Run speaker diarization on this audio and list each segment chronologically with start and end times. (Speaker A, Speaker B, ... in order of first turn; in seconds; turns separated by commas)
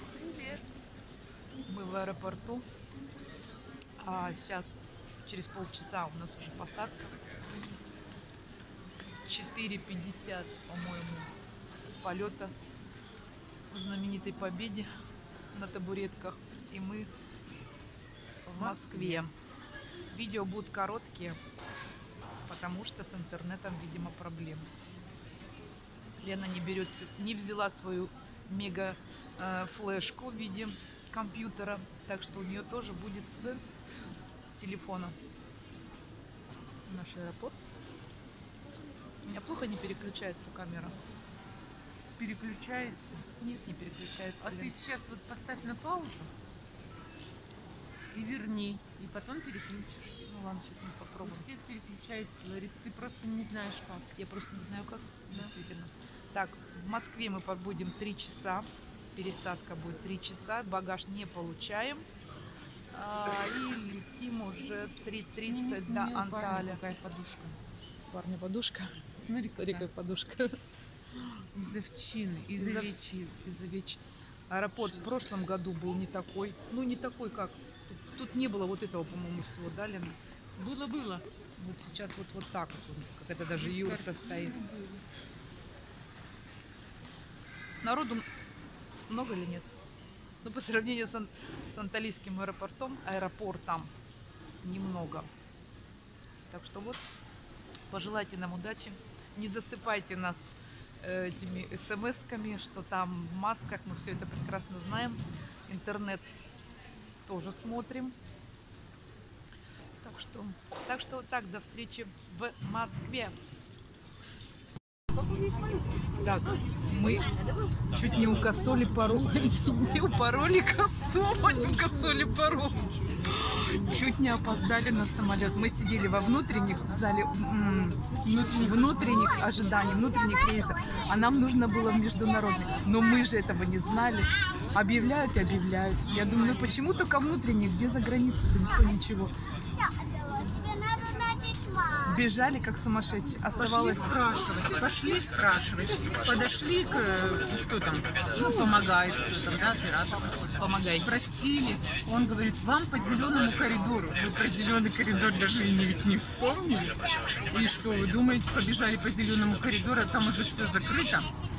Speaker A: 0.1-0.6, Speaker B: 1.7-2.7, Speaker B: 4.0-7.1, Speaker B: 9.2-11.3, Speaker B: 12.0-12.5, Speaker B: 13.7-14.9, Speaker B: 15.5-17.1, Speaker A: 18.5-19.3, Speaker B: 18.5-19.3, Speaker B: 20.1-21.4, Speaker B: 22.4-24.7, Speaker B: 26.2-33.7, Speaker B: 34.6-35.2, Speaker B: 36.9-37.6, Speaker B: 39.2-41.0, Speaker A: 42.2-43.2, Speaker B: 43.3-44.8, Speaker A: 44.4-46.3, Speaker A: 48.1-50.2, Speaker B: 50.3-51.5, Speaker A: 51.2-54.1, Speaker B: 54.2-62.1, Speaker B: 62.9-66.8, Speaker A: 65.4-67.6, Speaker B: 68.1-70.6, Speaker A: 69.2-69.9, Speaker A: 71.2-73.3, Speaker B: 72.6-80.2, Speaker A: 80.6-81.2, Speaker B: 81.6-84.6, Speaker A: 83.5-85.0, Speaker B: 87.8-88.3, Speaker B: 89.1-89.7, Speaker B: 90.4-93.9, Speaker B: 94.6-95.3, Speaker B: 96.5-97.0, Speaker B: 97.9-106.3, Speaker B: 107.2-108.2, Speaker B: 110.0-113.4, Speaker B: 116.2-117.4, Speaker B: 117.9-122.9, Speaker B: 123.5-139.3, Speaker A: 128.2-129.3, Speaker B: 142.0-144.2, Speaker A: 143.6-161.3, Speaker B: 150.6-151.1